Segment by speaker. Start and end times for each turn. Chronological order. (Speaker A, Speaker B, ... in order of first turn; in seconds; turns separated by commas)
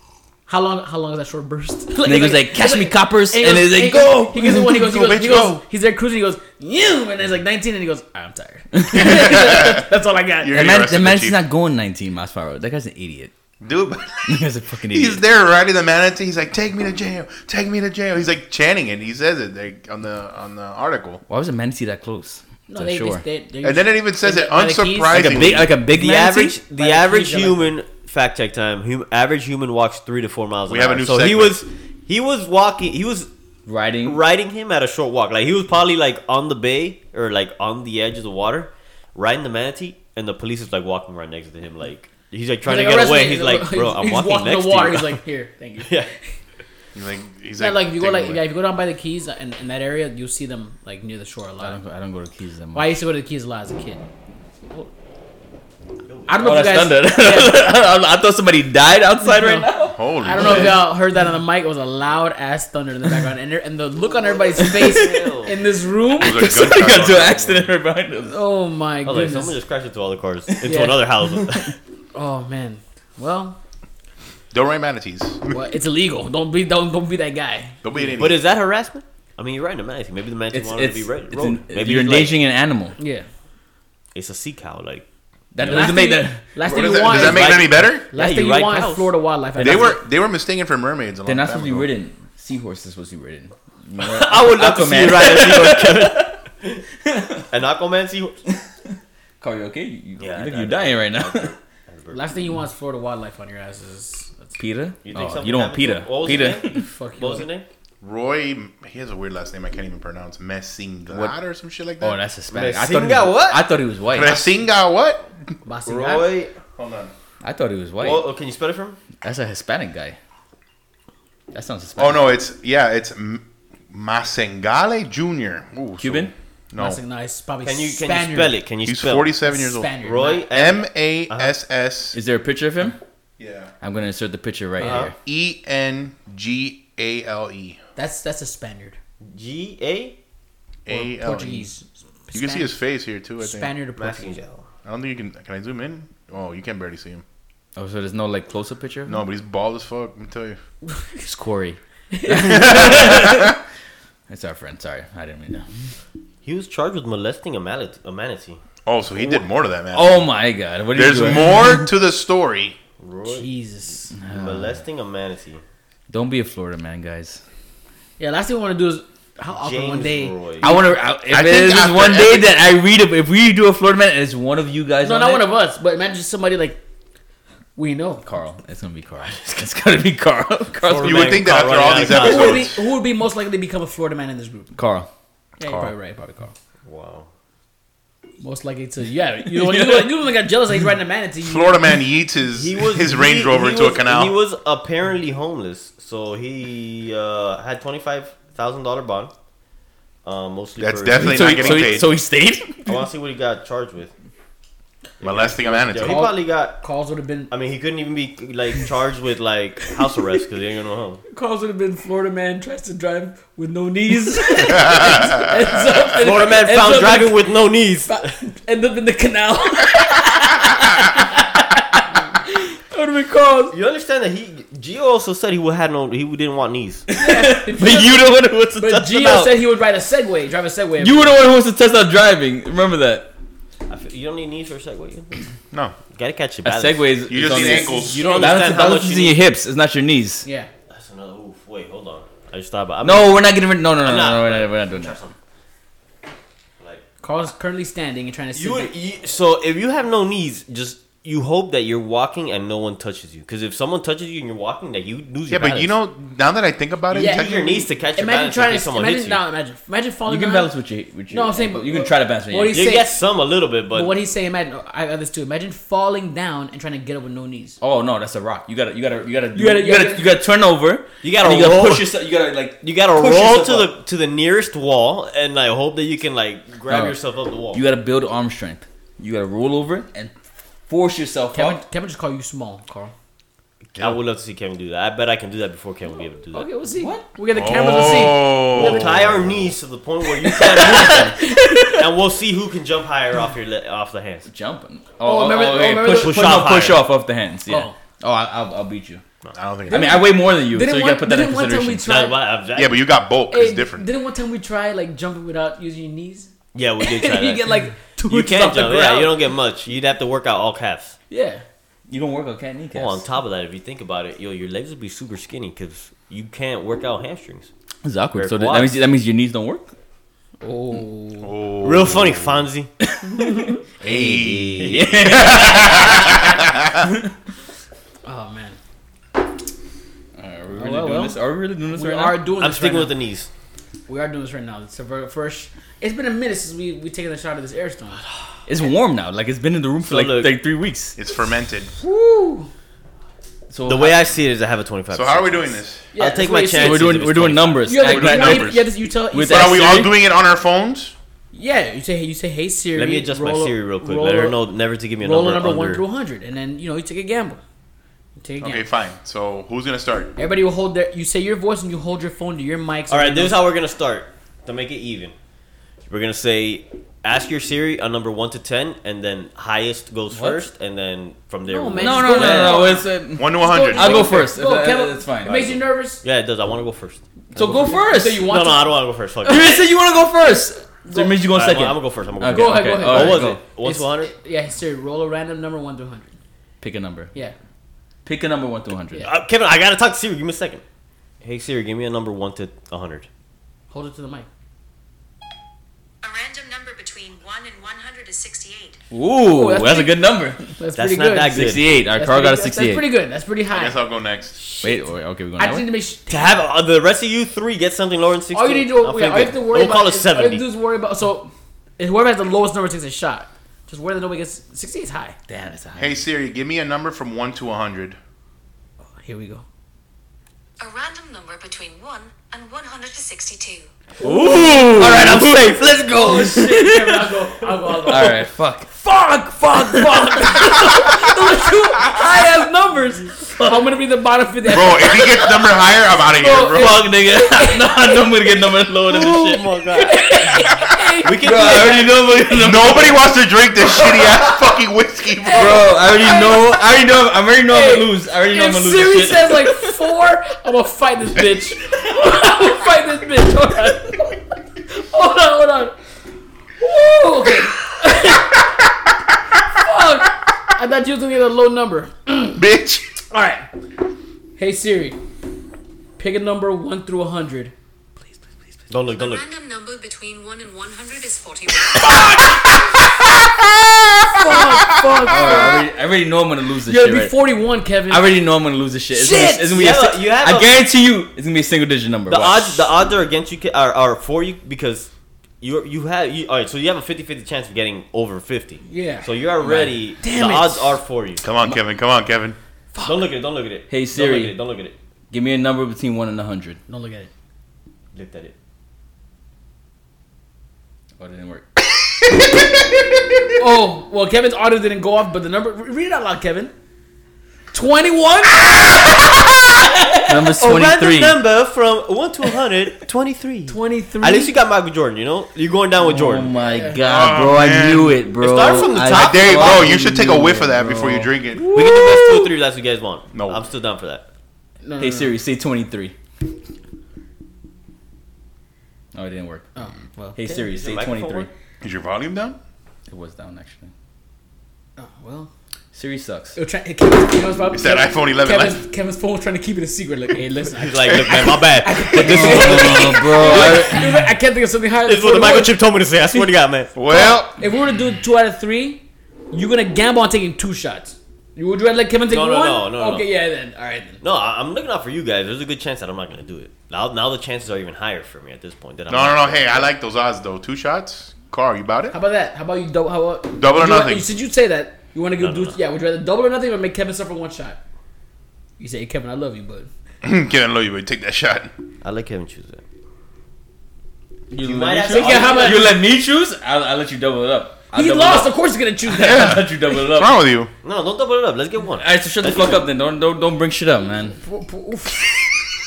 Speaker A: 0.5-10.6, Speaker B: 2.0-4.6, Speaker C: 4.4-5.6, Speaker B: 8.8-9.3, Speaker C: 8.9-11.4, Speaker B: 10.5-13.3, Speaker C: 13.6-21.2, Speaker B: 14.3-15.2, Speaker B: 21.3-23.2, Speaker A: 22.7-25.5, Speaker C: 23.6-25.7, Speaker B: 25.1-26.6, Speaker D: 25.8-33.3, Speaker A: 26.8-27.7, Speaker C: 30.7-31.6, Speaker B: 33.6-34.2, Speaker D: 34.0-45.2, Speaker A: 42.6-46.0, Speaker D: 45.8-46.1, Speaker C: 46.9-48.5, Speaker A: 47.6-51.8, Speaker B: 51.6-53.0, Speaker A: 52.7-54.1, Speaker D: 56.1-56.7, Speaker A: 56.3-57.6, Speaker B: 56.4-60.7, Speaker A: 59.2-66.8, Speaker C: 59.9-60.9, Speaker D: 64.0-65.6, Speaker B: 64.6-65.1, Speaker C: 66.2-67.8, Speaker B: 66.2-68.4, Speaker A: 68.3-69.6, Speaker D: 69.0-71.8, Speaker A: 70.6-71.0, Speaker A: 72.1-73.6, Speaker C: 74.5-75.5, Speaker A: 75.5-77.8, Speaker C: 77.8-78.4, Speaker D: 78.2-82.4, Speaker B: 80.5-83.0, Speaker A: 83.0-83.3, Speaker D: 84.1-85.0, Speaker B: 85.5-86.4, Speaker A: 85.6-90.0, Speaker C: 86.6-88.0, Speaker D: 87.0-89.1, Speaker C: 89.6-91.9, Speaker B: 89.6-89.9, Speaker B: 91.3-96.4, Speaker D: 94.0-96.8, Speaker B: 97.0-97.4, Speaker D: 97.5-98.4, Speaker B: 98.8-101.5, Speaker D: 100.2-102.3, Speaker A: 102.1-104.5, Speaker B: 104.6-106.8, Speaker D: 105.0-107.7, Speaker A: 106.4-107.5, Speaker C: 108.0-112.2, Speaker B: 111.1-111.3, Speaker B: 112.0-114.5, Speaker D: 112.5-113.7, Speaker C: 114.1-115.3, Speaker A: 115.6-116.3, Speaker D: 115.9-116.6, Speaker C: 116.8-117.1, Speaker B: 117.4-118.2, Speaker D: 118.0-119.0, Speaker B: 119.2-120.2, Speaker B: 121.5-122.3, Speaker C: 122.0-127.0, Speaker B: 126.0-126.3, Speaker A: 126.8-128.6, Speaker D: 127.6-129.3, Speaker C: 128.8-129.9, Speaker A: 129.4-130.4, Speaker D: 130.0-131.5, Speaker C: 130.5-132.2, Speaker B: 132.1-133.0, Speaker C: 133.4-133.7, Speaker B: 133.8-135.1, Speaker D: 134.8-135.1, Speaker C: 135.0-137.8, Speaker A: 137.9-139.0, Speaker D: 139.3-140.2, Speaker C: 140.9-141.7, Speaker A: 140.9-142.8, Speaker C: 142.3-143.7, Speaker A: 143.4-144.4, Speaker D: 143.9-144.7, Speaker C: 144.8-147.2, Speaker B: 147.8-149.2, Speaker C: 149.1-150.6, Speaker B: 151.2-153.6, Speaker A: 152.1-153.1, Speaker C: 152.4-153.6, Speaker B: 154.3-155.7, Speaker D: 156.4-158.6, Speaker C: 158.9-160.2, Speaker B: 159.9-161.9, Speaker C: 160.9-162.8, Speaker D: 163.0-163.4, Speaker A: 163.3-164.1, Speaker B: 164.2-164.8, Speaker D: 164.3-165.6, Speaker B: 166.1-167.4, Speaker A: 168.2-170.4, Speaker D: 169.6-170.7, Speaker B: 170.6-175.4, Speaker C: 170.7-172.5, Speaker A: 175.0-176.8, Speaker A: 177.8-178.2, Speaker B: 178.2-181.5, Speaker D: 180.8-182.7, Speaker C: 181.0-182.8, Speaker A: 182.1-184.8, Speaker B: 184.8-185.1, Speaker A: 185.6-186.5, Speaker C: 185.6-185.9, Speaker D: 186.9-187.3, Speaker A: 188.4-192.0, Speaker B: 189.6-190.1, Speaker C: 191.4-194.4, Speaker D: 192.5-199.3, Speaker D: 200.2-202.1, Speaker C: 200.8-202.1, Speaker B: 201.1-203.1, Speaker D: 202.9-204.1, Speaker D: 205.2-206.8, Speaker C: 205.2-206.3, Speaker A: 206.0-207.5, Speaker D: 207.5-211.2, Speaker A: 211.3-217.4, Speaker C: 214.7-215.8, Speaker D: 216.2-218.2, Speaker A: 218.1-221.5, Speaker A: 222.4-223.8, Speaker D: 223.7-227.1, Speaker B: 227.1-229.4, Speaker A: 227.1-231.4, Speaker B: 231.0-233.3, Speaker D: 233.9-235.4, Speaker D: 236.1-239.4, Speaker B: 236.6-240.4, Speaker C: 237.3-238.4, Speaker A: 237.6-238.5, Speaker A: 240.4-240.7, Speaker D: 240.9-245.3, Speaker B: 243.0-245.2, Speaker D: 246.8-247.1, Speaker A: 247.2-248.9, Speaker D: 248.6-255.9, Speaker C: 255.5-257.9, Speaker D: 257.1-259.4, Speaker A: 257.1-260.7, Speaker B: 260.3-262.9, Speaker A: 261.3-263.1, Speaker D: 262.7-264.2, Speaker A: 263.9-267.8, Speaker B: 267.8-273.9, Speaker A: 269.5-270.3, Speaker D: 271.2-272.1, Speaker D: 272.8-277.8, Speaker B: 276.9-277.1, Speaker B: 277.7-280.3, Speaker B: 280.9-281.8, Speaker A: 281.5-283.1, Speaker D: 283.9-286.6, Speaker A: 286.5-289.0, Speaker B: 286.9-287.3, Speaker C: 287.5-289.7, Speaker D: 288.6-294.5, Speaker B: 290.5-292.0, Speaker A: 290.6-291.9, Speaker B: 294.5-299.2, Speaker A: 295.2-296.9, Speaker D: 296.1-297.1, Speaker A: 297.7-298.0, Speaker C: 299.5-300.2, Speaker B: 299.9-302.1, Speaker A: 299.9-302.4, Speaker D: 302.1-303.0, Speaker C: 302.8-304.1, Speaker A: 303.5-309.4, Speaker D: 306.7-307.6, Speaker D: 308.3-311.1, Speaker A: 311.3-311.6, Speaker B: 312.1-313.2, Speaker D: 312.9-317.7, Speaker B: 318.0-319.9, Speaker D: 318.4-319.0, Speaker A: 320.6-321.5, Speaker C: 321.4-322.7, Speaker D: 321.8-322.9, Speaker B: 323.1-326.4, Speaker C: 324.0-327.1, Speaker D: 324.8-325.9, Speaker A: 328.2-328.8, Speaker B: 330.4-332.5, Speaker A: 330.8-331.4, Speaker A: 331.9-333.2, Speaker D: 332.6-333.5, Speaker A: 334.1-338.2, Speaker B: 338.7-341.2, Speaker D: 340.0-340.6, Speaker C: 341.2-341.9, Speaker A: 342.0-342.7, Speaker B: 343.7-344.2, Speaker D: 343.9-347.9, Speaker C: 345.1-346.1, Speaker A: 346.1-347.2, Speaker B: 346.8-350.1, Speaker A: 347.9-350.1, Speaker C: 348.0-348.9, Speaker C: 349.4-351.1, Speaker A: 351.5-354.6, Speaker D: 352.9-356.0, Speaker A: 355.2-357.6, Speaker A: 358.4-358.9, Speaker C: 358.6-360.3, Speaker A: 360.4-363.6, Speaker D: 363.1-365.4, Speaker D: 366.1-373.0, Speaker B: 370.3-370.6, Speaker A: 371.7-376.2, Speaker B: 372.0-375.8, Speaker C: 373.4-374.4, Speaker D: 376.2-377.2, Speaker B: 377.5-378.5, Speaker A: 377.6-378.9, Speaker D: 378.4-379.8, Speaker B: 379.4-383.6, Speaker A: 381.1-381.4, Speaker D: 381.4-384.3, Speaker A: 382.5-386.3, Speaker B: 386.8-387.3, Speaker B: 388.2-389.3, Speaker D: 389.2-390.8, Speaker D: 391.4-393.3, Speaker A: 393.9-394.5, Speaker E: 396.2-399.0, Speaker B: 399.1-400.7, Speaker A: 399.4-400.1, Speaker A: 400.8-404.0, Speaker D: 400.9-401.9, Speaker B: 401.5-403.1, Speaker C: 403.7-404.6, Speaker A: 404.6-405.0, Speaker B: 404.8-405.9, Speaker A: 405.6-406.6, Speaker D: 406.3-410.6, Speaker A: 408.5-415.4, Speaker B: 415.5-416.2, Speaker C: 415.9-418.2, Speaker A: 419.2-419.6, Speaker E: 420.8-423.9, Speaker B: 424.2-427.2, Speaker A: 424.2-435.7, Speaker D: 424.9-425.7, Speaker B: 428.0-428.9, Speaker B: 430.0-431.1, Speaker B: 433.5-433.9, Speaker C: 434.7-437.1, Speaker A: 436.4-438.3, Speaker B: 436.7-439.6, Speaker D: 439.1-440.6, Speaker A: 440.0-442.0, Speaker D: 441.2-442.4, Speaker B: 441.4-443.2, Speaker C: 442.5-445.9, Speaker A: 445.4-447.0, Speaker B: 445.5-449.8, Speaker A: 447.7-454.4, Speaker A: 454.9-455.9, Speaker A: 456.8-458.6, Speaker A: 459.8-462.6, Speaker C: 462.6-463.1, Speaker A: 463.3-463.7, Speaker A: 464.6-465.2, Speaker A: 466.2-467.7, Speaker D: 468.9-469.5, Speaker E: 469.1-472.8, Speaker C: 471.8-475.8, Speaker A: 474.3-475.9, Speaker B: 475.3-477.4, Speaker A: 476.9-478.3, Speaker B: 478.1-482.8, Speaker A: 479.1-479.7, Speaker D: 479.7-480.8, Speaker D: 482.3-485.1, Speaker D: 485.6-491.4, Speaker A: 488.9-489.3, Speaker B: 489.6-489.9, Speaker A: 490.2-491.0, Speaker C: 491.4-492.6, Speaker A: 492.9-493.3, Speaker D: 493.0-494.9, Speaker B: 493.9-494.6, Speaker B: 495.3-496.8, Speaker A: 496.9-497.3, Speaker D: 498.1-498.6, Speaker B: 501.2-501.7, Speaker A: 503.6-506.7, Speaker A: 507.7-509.3, Speaker B: 510.0-511.4, Speaker D: 510.3-516.5, Speaker A: 513.7-514.5, Speaker B: 516.1-522.5, Speaker A: 516.6-517.0, Speaker C: 517.0-518.3, Speaker D: 518.4-520.0, Speaker C: 519.0-521.7, Speaker D: 521.7-524.2, Speaker C: 523.3-523.6, Speaker A: 524.8-525.4, Speaker B: 525.0-526.1, Speaker B: 529.1-529.7, Speaker A: 529.8-530.7, Speaker B: 530.4-531.5, Speaker D: 530.7-531.5, Speaker C: 531.8-532.6, Speaker B: 533.1-533.9, Speaker A: 535.0-535.5, Speaker B: 535.9-536.6, Speaker A: 536.5-545.8, Speaker C: 537.7-538.8, Speaker D: 540.7-544.0, Speaker C: 541.1-541.6, Speaker B: 541.9-544.3, Speaker D: 545.0-546.9, Speaker C: 547.0-547.6, Speaker A: 547.0-554.2, Speaker D: 552.3-553.3, Speaker D: 554.2-559.9, Speaker C: 559.1-562.1, Speaker A: 562.1-567.8, Speaker C: 563.5-564.3, Speaker D: 565.4-565.8, Speaker A: 568.8-569.9, Speaker C: 570.2-571.7, Speaker D: 572.0-572.8, Speaker B: 574.5-578.5, Speaker D: 574.6-576.0, Speaker A: 575.1-576.0, Speaker A: 577.9-579.7, Speaker B: 579.1-580.4, Speaker C: 579.2-580.7, Speaker D: 580.8-582.9, Speaker B: 582.0-584.4, Speaker A: 584.3-585.5